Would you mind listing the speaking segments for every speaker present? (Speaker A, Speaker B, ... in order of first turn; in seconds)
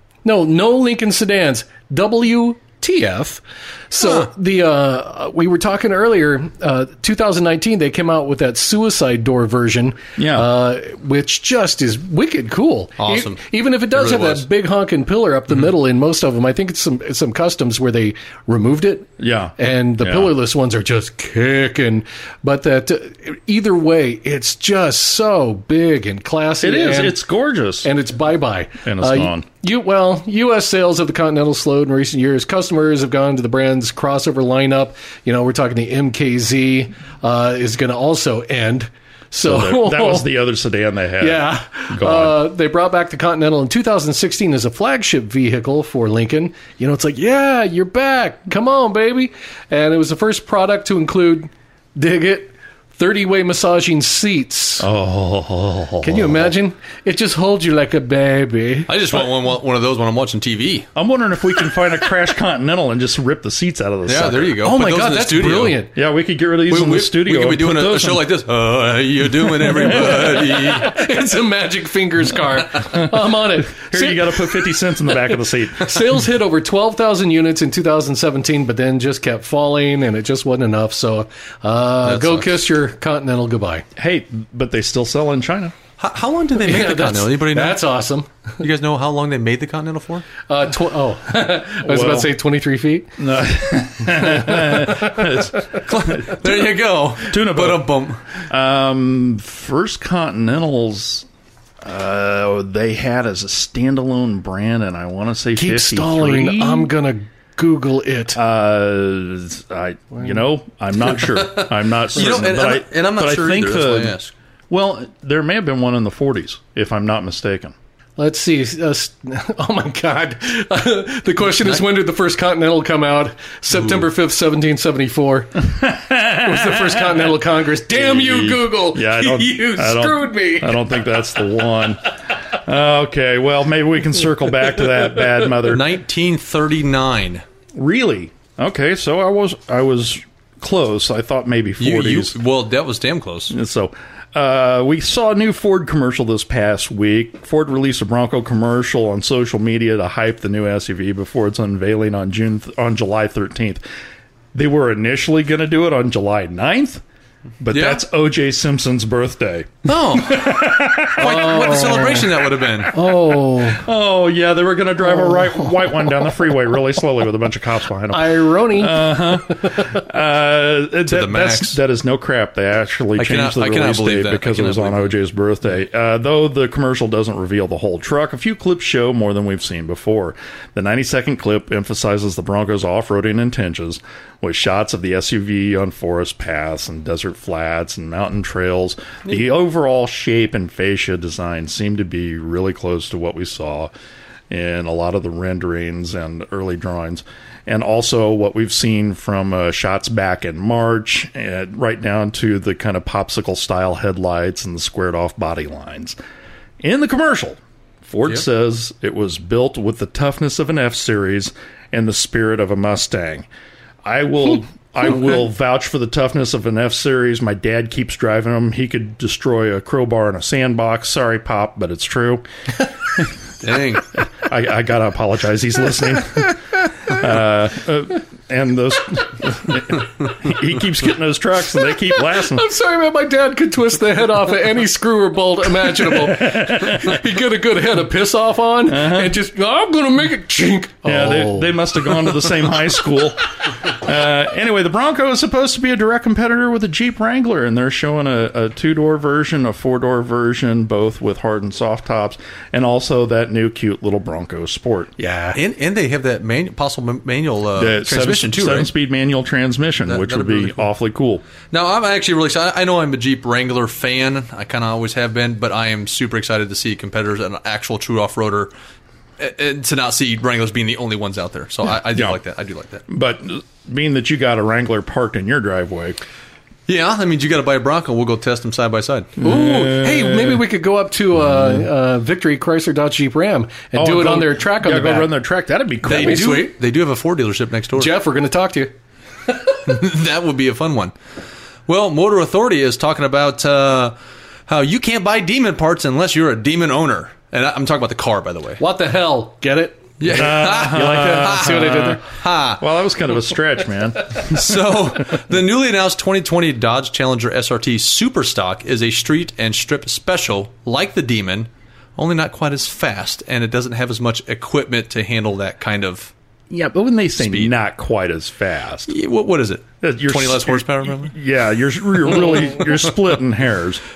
Speaker A: 0.2-27.2, 27.8-40.3, 41.2-54.9, 56.0-58.9, 64.6-65.9, 70.3-83.9, 86.6-88.3, 90.5-93.1, 94.3-94.9, 105.6-108.4, 110.1-110.4, 118.2-125.7, 126.4-130.9, 161.2-162.4, 162.9-163.9, 165.0-166.3, 168.1-170.0, 232.0-242.8, 255.2-255.6, 279.4-285.3, 286.0-286.8, 287.9-288.9, 289.5-289.8, 298.8-302.2
Speaker B: 4.0-4.3, 13.0-13.4, 13.9-14.4, 58.9-60.9, 64.1-65.8, 66.7-71.0, 82.0-82.6, 86.0-87.8, 88.6-90.3, 95.8-98.2, 111.2-114.3, 121.6-121.8, 123.7-124.1, 135.7-137.4, 141.8-143.5, 157.7-158.0, 159.9-162.9, 171.1-171.8, 173.2-175.1, 223.6-224.1, 255.5-258.9, 260.1-260.9, 261.7-268.7, 269.4-273.0, 276.9-279.3, 286.0-288.1, 289.9-291.1, 291.9-294.2, 294.7-298.8, 300.2-302.8, 304.4-316.3, 317.4-317.7, 319.1-321.3
Speaker C: 10.2-10.5, 19.2-20.3, 26.6-27.9, 28.8-29.4, 39.4-42.4, 54.8-56.5, 61.0-64.7, 65.9-68.3, 69.5-70.8, 72.9-76.0, 84.0-85.7, 91.8-92.3, 93.2-97.9, 98.5-101.3, 101.8-106.9, 108.3-114.2, 114.7-117.8, 125.6-136.0, 137.7-142.3, 143.5-153.8, 154.5-157.0, 157.6-162.1, 163.0-193.9, 194.5-206.2, 206.8-213.5, 214.0-222.4, 224.2-232.7, 236.0-237.2, 238.9-239.3, 241.1-255.2, 257.8-261.4, 272.1-272.4, 273.1-276.2, 279.4-280.6, 283.9-286.6, 300.3-302.2, 302.8-304.9, 316.7-319.1, 320.0-324.0